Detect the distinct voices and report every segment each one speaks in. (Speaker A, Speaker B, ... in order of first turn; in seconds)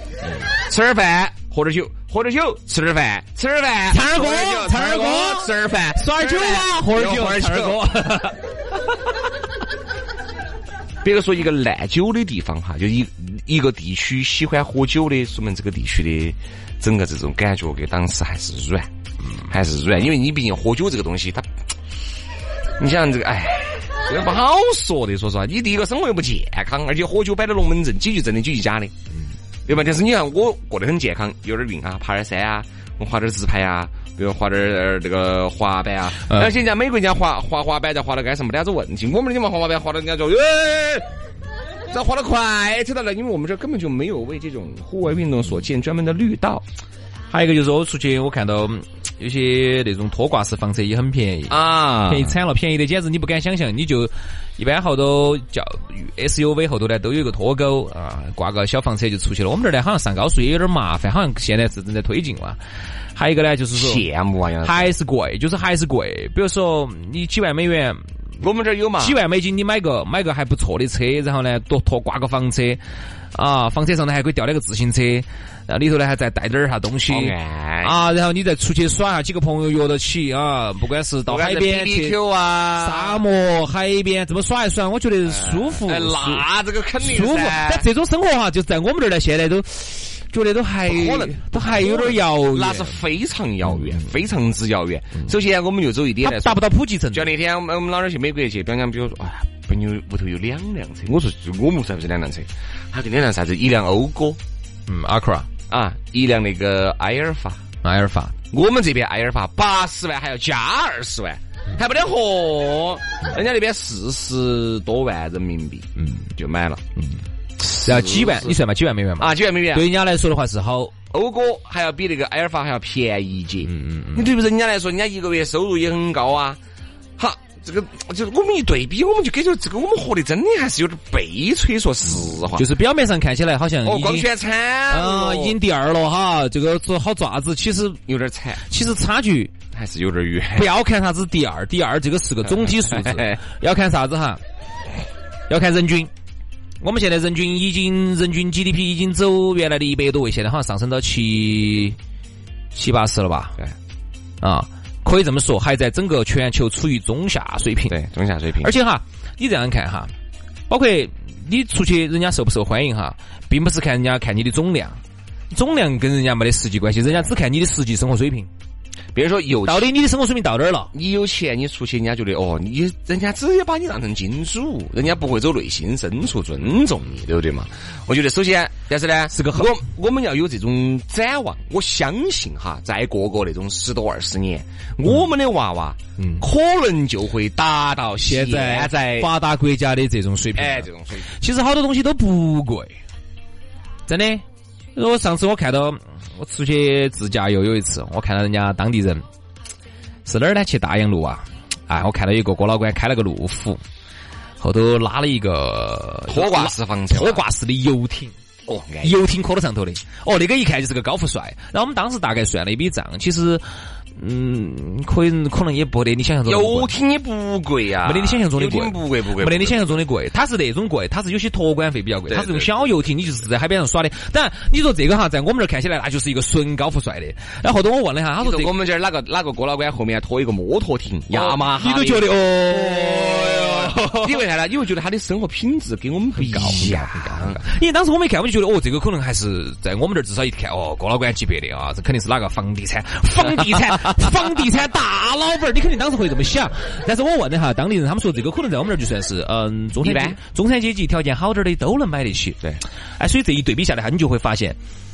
Speaker A: 0.5-7.9, 11.0-18.9, 19.5-21.5, 22.8-28.9, 29.6-41.1, 41.9-46.6, 51.5-52.4, 63.7-64.9, 68.4-69.2, 77.1-78.0, 81.3-83.2, 85.3-87.9, 90.8-104.4, 105.7-107.6, 108.5-116.8, 117.6-118.6, 119.2-119.9, 121.1-126.6, 127.2-132.7, 133.8-135.6, 138.1-138.6, 139.7-140.7, 142.5-143.4, 157.9-158.7, 169.1-169.9, 170.9-189.3, 190.5-191.3, 206.3-207.4, 208.7-209.2, 216.4-220.0, 222.3-222.7, 228.4-237.6, 250.0-250.4
Speaker B: 3.9-8.4, 47.3-62.6, 63.1-64.0, 64.6-68.0, 69.0-72.8, 73.3-82.2, 82.7-86.5, 87.0-93.0, 96.2-97.3, 104.9-105.5, 107.8-108.3, 116.0-116.3, 117.7-120.9, 123.7-124.3, 132.5-134.3, 134.9-138.0, 138.6-139.5, 140.5-144.4, 145.5-146.1, 146.8-152.0, 152.7-153.6, 154.4-158.0, 158.6-160.1, 160.7-165.0, 165.5-168.5, 169.6-170.9, 179.3-179.7, 186.2-186.4, 188.2-192.9, 194.1-199.2, 200.2-203.8, 204.6-208.3, 209.0-213.6, 214.2-216.9, 218.0-228.7, 231.3-234.4, 236.3-252.6, 253.2-254.8